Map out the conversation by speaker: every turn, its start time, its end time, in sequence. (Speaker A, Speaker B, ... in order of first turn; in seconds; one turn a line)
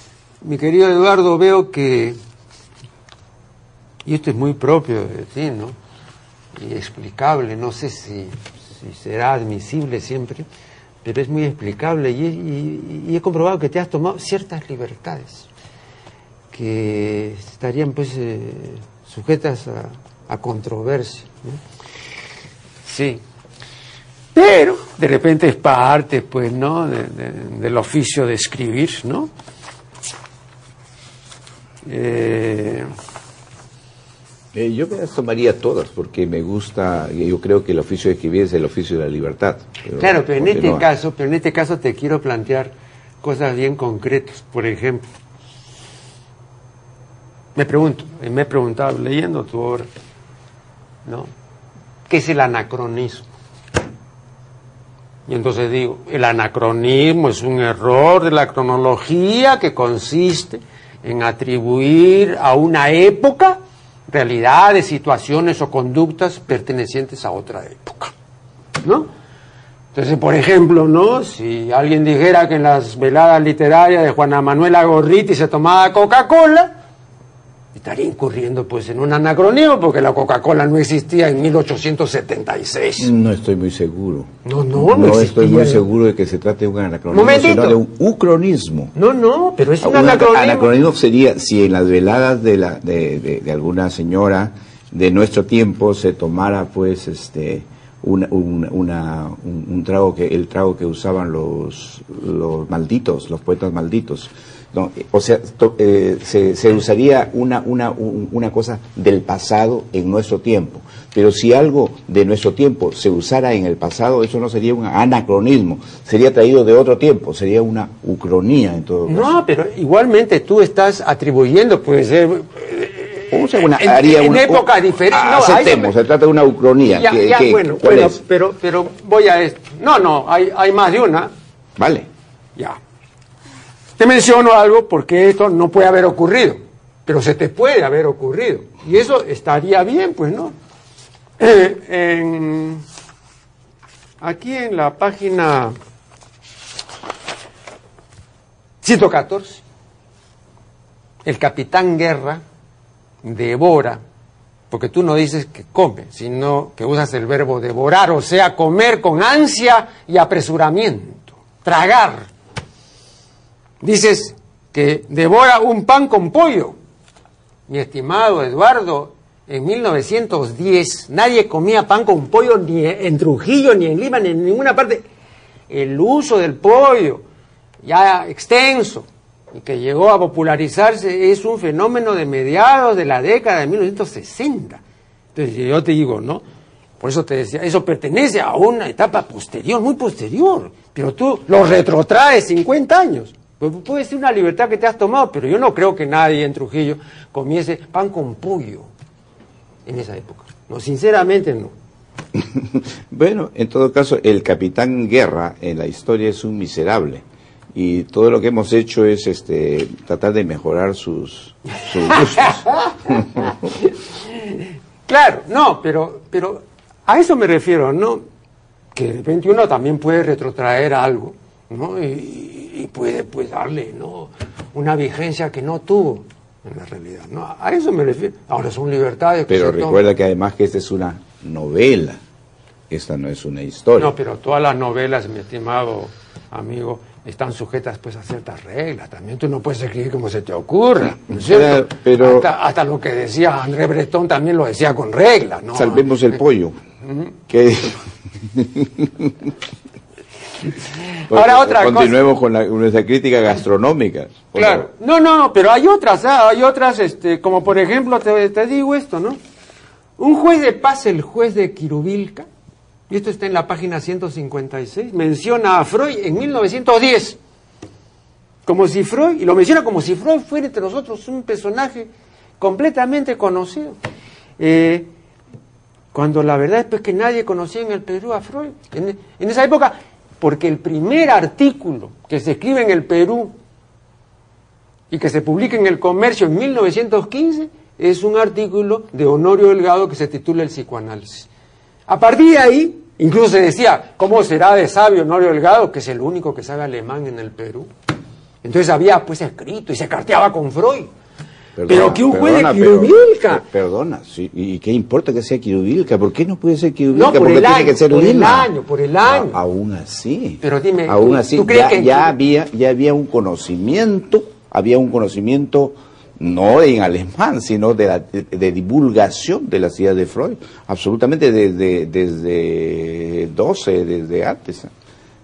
Speaker A: 0.4-2.1
Speaker A: 4.0-5.8
Speaker A: 6.5-10.4
Speaker A: 11.0-15.5
Speaker A: 16.5-21.6
Speaker A: 22.8-23.2
Speaker A: 24.3-29.3
Speaker A: 31.9-32.9
Speaker B: 34.5-40.9
Speaker A: 40.0-45.0
Speaker A: 47.5-49.9
Speaker A: 51.0-51.3
Speaker A: 52.1-53.3
Speaker A: 55.3-68.1
Speaker A: 68.8-69.1
Speaker A: 69.9-76.7
Speaker A: 77.7-83.1
Speaker B: 83.0-88.9
Speaker A: 84.4-85.8
Speaker A: 87.1-87.8
Speaker A: 88.9-90.7
Speaker B: 89.8-119.4
Speaker A: 119.1-125.9
Speaker B: 123.3-128.2
Speaker A: 126.9-131.3
Speaker B: 131.8-132.1
Speaker A: 134.0-140.5
Speaker A: 141.4-142.8
Speaker A: 144.2-145.7
Speaker A: 148.8-149.6
Speaker A: 151.2-152.4
Speaker A: 153.2-154.0
Speaker A: 154.7-162.3
Speaker A: 163.8-166.8
Speaker A: 167.7-175.0
Speaker A: 175.7-177.2
Speaker A: 177.8-184.8
Speaker A: 185.3-186.4
Speaker A: 187.0-198.9
Speaker A: 199.8-201.7
Speaker B: 202.3-213.5
Speaker A: 212.1-218.2
Speaker A: 218.9-230.1
Speaker B: 229.5-232.2
Speaker B: 232.9-234.1
Speaker A: 234.0-246.1
Speaker B: 241.3-242.5
Speaker B: 245.7-246.7
Speaker A: 247.0-247.3
Speaker B: 247.5-249.3
Speaker A: 251.0-252.2
Speaker B: 251.3-254.9
Speaker A: 254.5-259.4
Speaker A: 260.2-262.5
Speaker A: 263.1-267.4
Speaker A: 268.6-272.1
Speaker A: 272.6-274.0
Speaker A: 274.6-275.1
Speaker A: 276.1-283.5
Speaker A: 285.1-291.5
Speaker A: 292.1-297.9
Speaker A: 298.6-301.1
Speaker B: 301.8-308.7
Speaker A: 301.9-303.6
Speaker A: 307.1-309.6
Speaker B: 309.2-324.9
Speaker A: 310.6-312.3